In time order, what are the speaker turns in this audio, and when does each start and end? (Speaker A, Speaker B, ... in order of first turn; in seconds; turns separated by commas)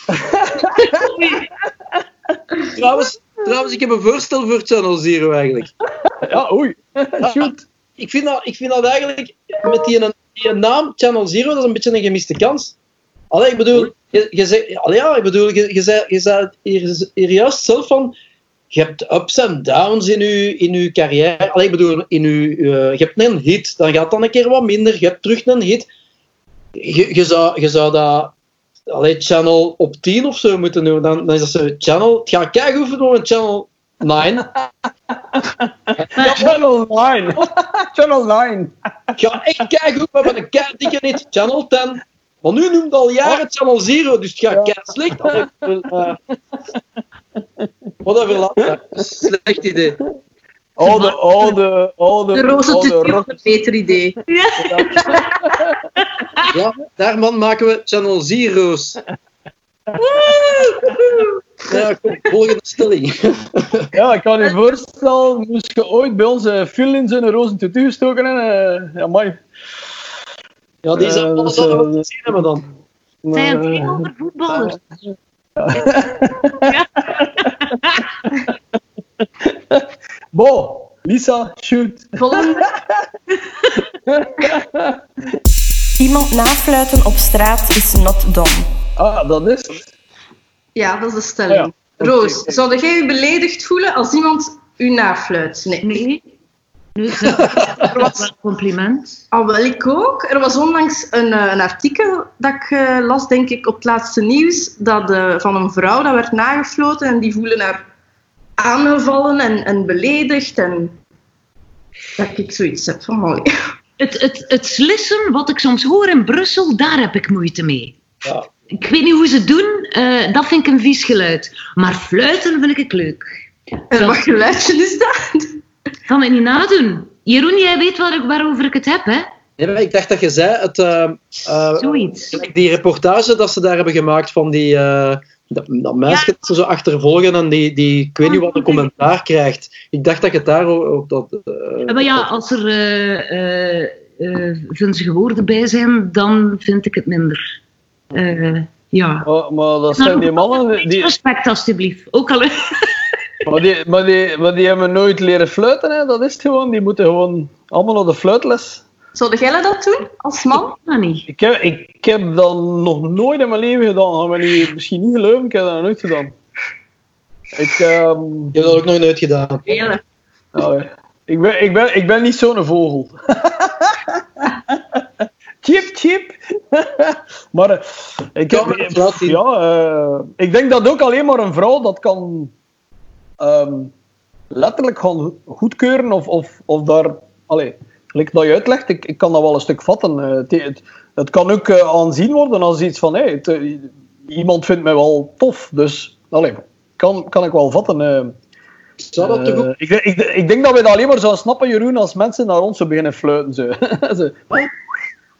Speaker A: 0.1-1.1, Speaker B: 0.8-1.5, Speaker C: 2.7-5.7, Speaker A: 6.2-7.6, Speaker C: 7.2-12.7, Speaker C: 13.3-18.1, Speaker C: 18.7-25.9, Speaker C: 26.8-28.3, Speaker C: 28.9-34.5, Speaker A: 35.1-39.1, Speaker B: 36.1-36.5, Speaker C: 39.2-46.2, Speaker A: 44.5-45.5, Speaker C: 48.0-50.0, Speaker A: 50.8-53.3, Speaker B: 50.8-51.6, Speaker D: 52.3-54.2, Speaker B: 54.3-55.3, Speaker A: 54.9-55.7, Speaker B: 56.0-56.5, Speaker C: 56.5-59.0, Speaker B: 60.0-61.4, Speaker C: 61.7-63.9, Speaker A: 63.9-69.4, Speaker C: 70.8-72.7, Speaker A: 71.0-72.0, Speaker A: 73.2-74.1, Speaker B: 73.3-74.8, Speaker A: 75.6-77.5, Speaker B: 76.6-78.1, Speaker A: 79.4-83.0, Speaker D: 82.2-82.7, Speaker A: 84.0-85.0, Speaker E: 86.0-88.7, Speaker A: 89.0-89.9, Speaker D: 90.8-95.9, Speaker A: 91.5-92.5, Speaker B: 95.8-96.2, Speaker B: 96.9-99.2, Speaker C: 97.3-98.1, Speaker D: 99.3-107.8, Speaker D: 108.6-110.9, Speaker D: 112.2-113.5, Speaker B: 114.0-118.0, Speaker C: 118.2-118.5, Speaker B: 118.7-123.3, Speaker B: 123.9-124.2, Speaker D: 123.9-125.6, Speaker B: 126.1-129.3, Speaker C: 129.6-142.2, Speaker B: 131.8-132.4, Speaker B: 136.1-136.4, Speaker B: 138.2-138.9, Speaker B: 141.8-147.5, Speaker B: 148.1-149.3, Speaker A: 149.2-151.1, Speaker B: 149.9-153.0, Speaker A: 153.4-158.8, Speaker D: 159.1-160.7, Speaker B: 160.5-161.2, Speaker A: 161.3-166.3, Speaker A: 167.5-168.6, Speaker C: 168.5-169.6, Speaker D: 169.7-170.0, Speaker A: 170.5-175.0, Speaker A: 175.6-182.5, Speaker C: 178.5-179.4, Speaker A: 183.4-183.9, Speaker A: 184.5-198.3, Speaker C: 199.0-199.7, Speaker A: 199.2-204.4